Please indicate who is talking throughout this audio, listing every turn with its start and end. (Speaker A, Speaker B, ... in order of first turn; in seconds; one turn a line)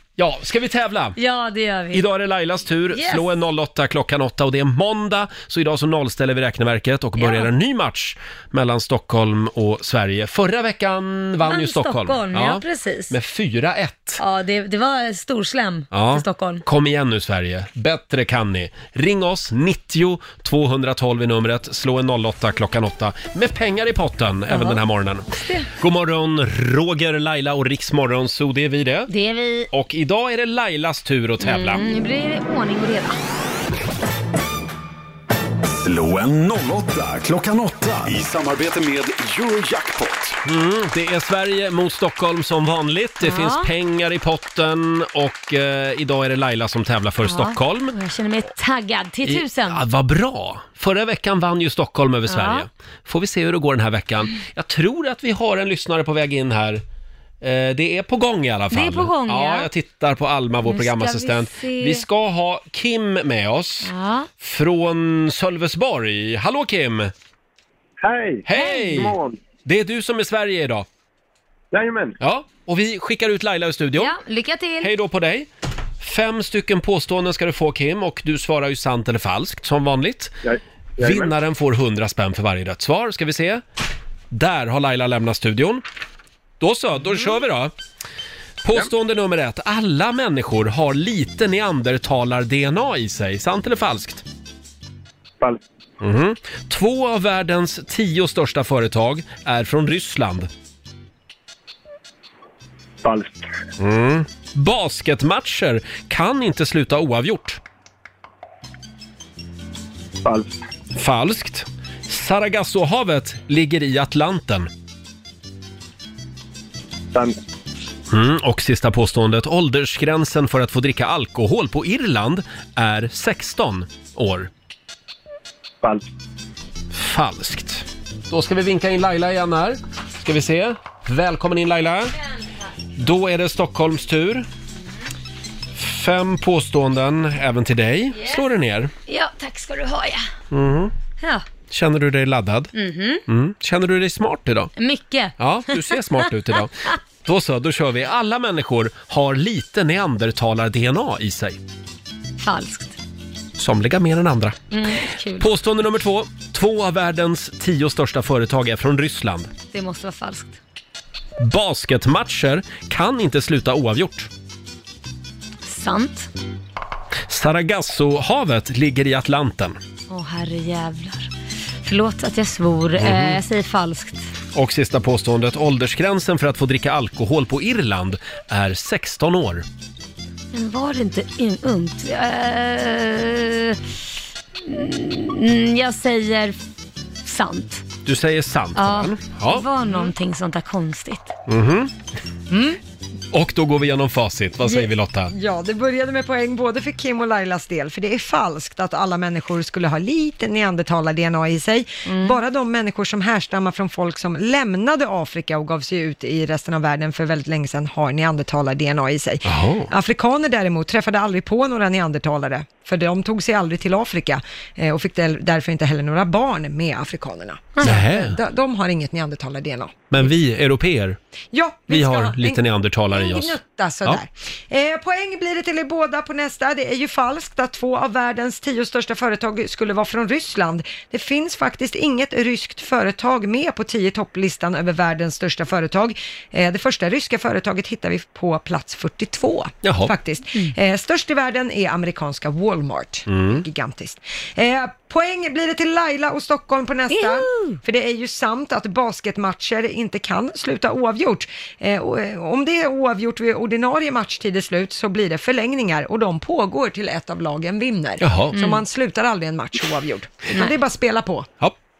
Speaker A: 0.2-1.2
Speaker B: 1.2-2.0
Speaker A: 1.9-14.2
Speaker B: 2.9-3.3
Speaker B: 7.2-7.5
Speaker B: 11.4-13.1
Speaker B: 14.2-16.6
Speaker A: 15.9-29.1
Speaker B: 24.5-24.8
Speaker B: 25.3-25.7
Speaker B: 29.1-29.7
Speaker A: 29.7-31.9
Speaker B: 31.4-33.2
Speaker C: 35.7-40.4
Speaker A: 40.5-48.0
Speaker B: 43.2-43.7
Speaker B: 47.2-49.8
Speaker A: 49.2-56.8
Speaker B: 52.3-52.6
Speaker A: 57.4-67.1
Speaker B: 58.7-59.7
Speaker B: 60.6-62.0
Speaker B: 63.9-64.3
Speaker D: 68.0-69.4
Speaker A: 68.5-70.9
Speaker B: 68.5-69.1
Speaker D: 71.7-72.2
Speaker A: 72.2-74.1
Speaker B: 74.0-74.9
Speaker A: 74.8-75.5
Speaker A: 76.0-80.3
Speaker D: 80.4-81.3
Speaker A: 81.0-83.6
Speaker A: 84.3-85.8
Speaker A: 86.6-87.7
Speaker A: 88.6-94.2
Speaker A: 96.0-100.5
Speaker D: 103.0-103.4
Speaker A: 103.8-107.6
Speaker D: 110.2-110.5
Speaker A: 111.0-114.7
Speaker A: 118.1-124.5
Speaker A: 126.9-132.2
Speaker A: 133.0-134.5
Speaker A: 135.8-138.9
Speaker B: 138.2-138.4
Speaker B: 139.1-140.3
Speaker A: 140.5-140.9
Speaker A: 141.7-142.7
Speaker B: 142.8-143.2
Speaker A: 143.3-144.7
Speaker B: 144.8-146.3
Speaker A: 145.4-151.6
Speaker B: 152.4-153.0
Speaker A: 153.6-154.7
Speaker B: 154.7-155.5
Speaker A: 155.4-159.5
Speaker B: 159.7-160.6
Speaker A: 161.4-164.3
Speaker B: 165.7-166.3
Speaker A: 167.3-169.8
Speaker B: 170.1-171.3
Speaker B: 171.8-174.3
Speaker A: 173.0-173.4
Speaker A: 174.5-179.7
Speaker B: 180.5-183.8
Speaker B: 184.7-186.6
Speaker B: 187.2-187.8
Speaker A: 188.1-189.7
Speaker B: 188.8-191.3
Speaker E: 189.8-190.1
Speaker A: 191.5-191.9
Speaker B: 192.5-192.8
Speaker A: 193.3-195.3
Speaker E: 194.7-220.3
Speaker B: 202.1-202.4
Speaker A: 209.4-209.9
Speaker B: 217.8-218.0
Speaker A: 217.8-218.4
Speaker A: 220.1-221.2
Speaker E: 221.5-261.5
Speaker A: 221.9-224.2
Speaker A: 239.8-240.1
Speaker A: 243.3-243.6
Speaker B: 247.1-247.8
Speaker A: 258.2-258.6
Speaker B: 258.5-258.8